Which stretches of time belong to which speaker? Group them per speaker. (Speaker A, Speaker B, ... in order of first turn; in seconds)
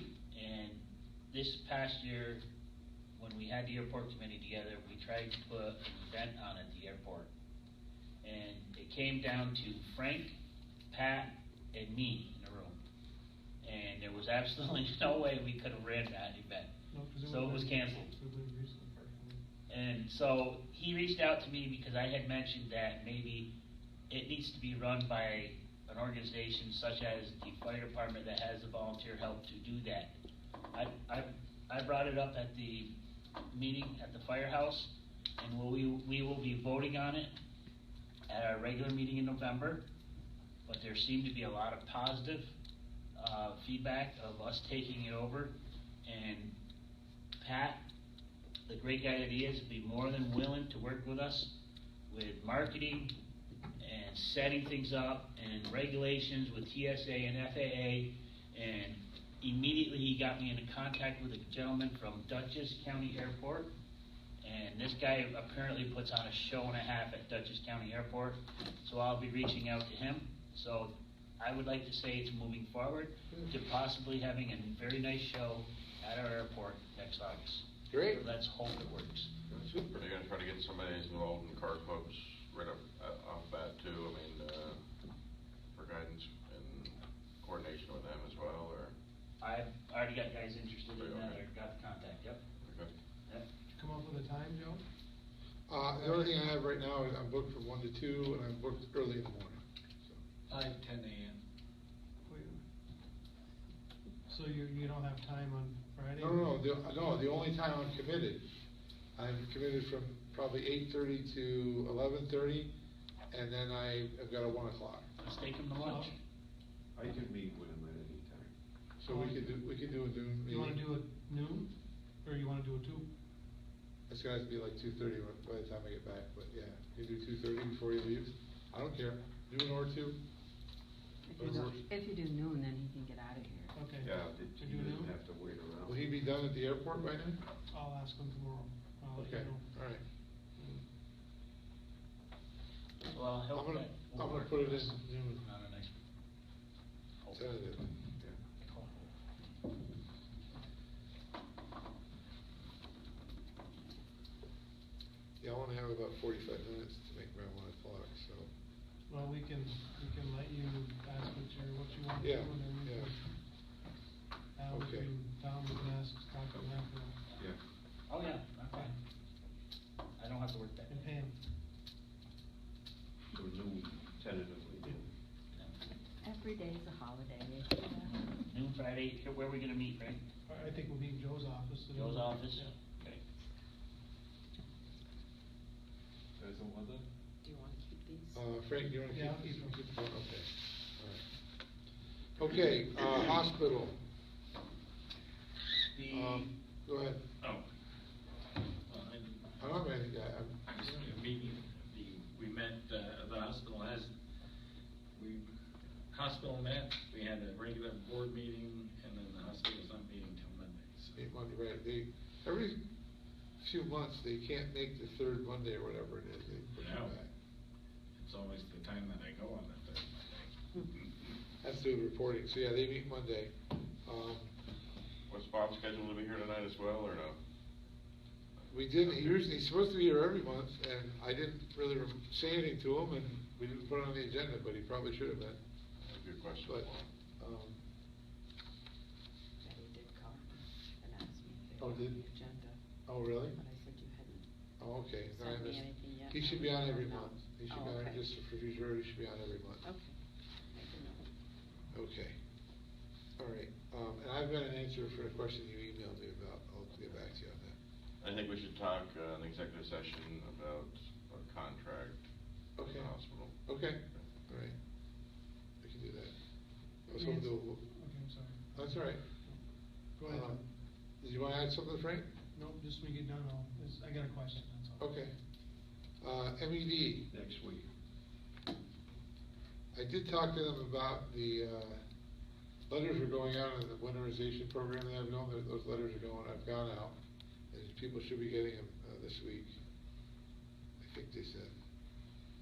Speaker A: 0.3-2.4, 3.1-7.3, 8.2-10.4, 10.9-12.7, 13.6-16.7, 17.2-18.1, 19.7-23.5, 24.1-30.1, 30.7-32.9, 33.5-37.3, 38.3-39.8, 40.6-42.5, 43.1-45.5, 46.0-46.5, 47.4-47.8, 48.7-51.5, 52.1-53.1, 53.8-63.7, 64.4-79.3, 89.4-92.4, 115.2-116.1, 143.1-146.0, 147.2-147.5, 148.6-148.9, 168.1-168.9, 170.2-171.1, 178.1-180.2, 181.9-183.2
Speaker B: 16.9-19.4, 93.7-94.8, 96.0-96.2, 102.2-102.6, 104.3-106.5, 115.7-116.1, 119.0-119.5, 120.5-121.7, 122.2-123.0, 131.4-131.7, 133.7-135.1, 137.7-139.7, 140.6-140.8, 159.1-163.3, 164.6-167.2, 170.9-171.3, 180.5-182.7, 189.1-189.8, 267.1-269.6, 270.2-270.6, 272.5-275.1
Speaker C: 77.9-78.2, 79.7-80.0, 95.7-100.2, 106.2-108.4, 109.2-112.7, 113.3-115.0, 119.0-120.8, 124.1-130.2, 131.4-131.8, 135.8-137.4, 139.2-140.0, 143.5-145.4, 147.3-147.9, 155.4-158.5, 162.2-163.1, 164.7-165.1, 188.3-191.2, 192.4-193.9, 196.1-197.2, 199.6-201.0, 211.2-212.8, 213.6-217.3, 221.6-223.5, 224.0-224.5, 228.7-235.6, 237.4-237.8, 241.8-242.2, 243.1-243.6, 244.8-249.8, 251.9-252.3, 253.4-257.8, 262.8-264.7, 265.8-266.3, 267.1-267.8, 268.8-269.2, 270.2-270.6, 271.2-272.3, 275.0-275.3, 276.2-277.3, 279.9-282.0, 282.9-287.1, 287.7-289.8, 291.0-291.7
Speaker D: 79.9-84.8, 85.7-88.9, 91.0-91.4, 92.6-92.9, 225.3-227.4, 228.6-229.4, 236.0-237.1, 258.2-262.2, 262.8-264.2
Speaker E: 100.5-101.4, 195.8-196.4, 197.4-197.7, 198.8-199.6, 200.7-204.1, 205.1-205.5, 206.1-211.3, 216.8-217.1, 218.2-221.1
Speaker F: 116.9-118.5, 134.0-136.1, 173.3-175.1, 186.4-187.0, 277.3-277.9
Speaker G: 131.3-133.7, 176.2-178.2, 187.4-188.4, 239.6-242.8, 243.4-244.4, 245.3-248.2, 249.8-250.2, 250.7-251.2